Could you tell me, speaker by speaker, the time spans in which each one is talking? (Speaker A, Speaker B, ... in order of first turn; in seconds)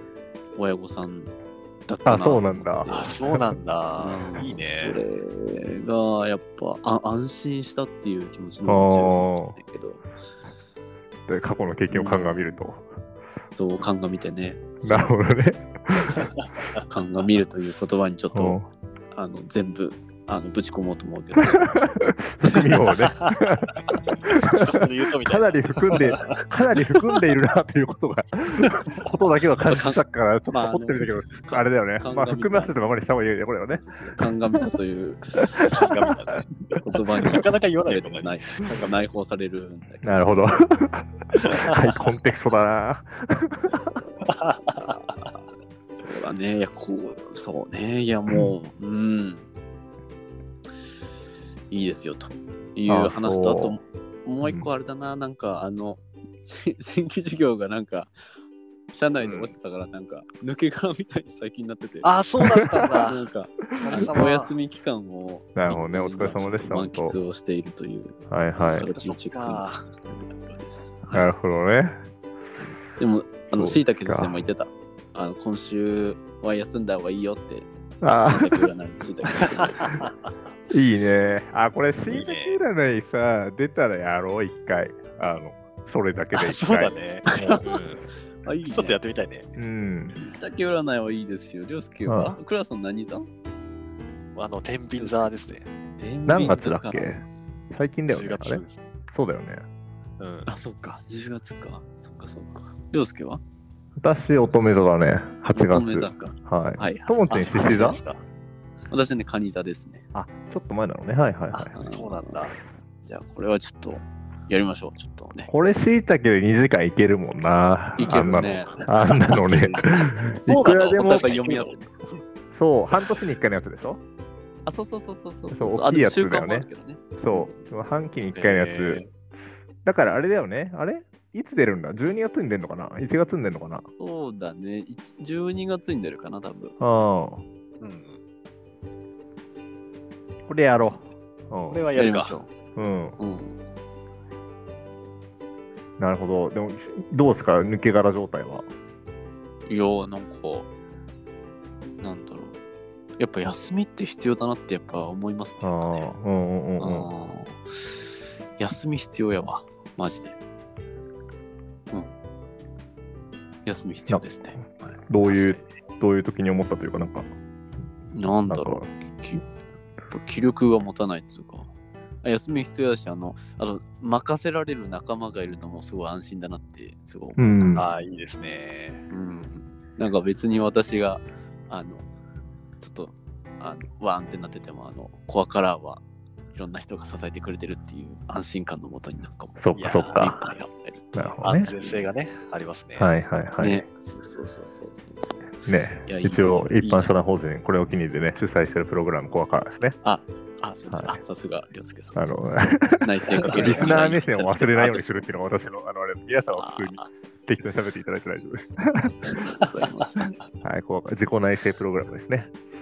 Speaker A: 0.6-1.3, 1.9-3.2, 4.0-10.0, 11.9-12.6, 13.6-15.2, 16.9-18.6, 19.1-21.9, 29.7-32.8, 33.7-35.7, 36.7-40.7, 46.0-49.5, 51.7-58.1, 58.9-62.1, 63.1-71.3, 72.7-80.0, 87.3-87.8, 88.4-89.0, 90.2-93.3, 95.0-97.2, 100.5-103.4, 105.5-108.0, 108.9-110.0, 111.5-115.5, 118.0-121.9, 124.7-127.7, 134.0-136.8, 141.9-142.5, 143.2-143.6, 149.7-150.7, 152.0-152.6, 153.2-156.2, 156.8-158.1, 158.6-160.3, 163.7-165.6, 168.1-169.5, 170.1-171.7, 172.2-177.9, 179.1-182.1, 182.8-192.1, 193.6-197.2, 200.0-205.3, 206.6-207.1, 209.1-210.4
Speaker B: 2.1-3.5, 8.7-9.6, 11.3-12.9, 14.8-16.3, 18.3-18.7, 21.6-23.8, 24.3-33.8, 40.0-43.8, 52.9-53.8, 54.4-54.7, 63.9-64.3, 65.5-67.2, 68.3-68.9, 71.1-72.0, 73.5-74.4, 78.0-78.7, 80.7-86.9, 89.6-90.1, 92.1-92.4, 96.3-99.6, 104.0-108.0, 110.1-111.8, 115.5-121.2, 122.5-124.0, 125.5-129.0, 129.8-133.9, 136.8-137.4, 140.5-141.9, 142.8-143.2, 146.0-148.7, 155.6-157.1, 164.1-167.3, 168.5-168.9, 177.4-177.9, 189.6-190.3, 191.2-191.7, 193.0-193.8, 195.7-200.0, 200.9-201.2, 202.2-209.1, 210.6-212.5
Speaker C: 2.9-5.0, 24.5-26.3, 35.7-38.9, 44.3-45.0, 59.2-59.5, 62.0-63.2, 63.8-64.5, 68.9-69.8, 79.6-80.1, 82.1-82.6, 86.3-88.1, 88.7-89.5, 94.3-95.7, 98.1-98.8, 100.2-100.5, 107.3-108.2, 111.8-112.6, 119.1-119.5, 120.5-122.2, 128.3-129.1, 137.8-138.2, 141.7-142.4, 177.8-179.0, 189.7-190.6, 191.4-193.1, 203.6-203.9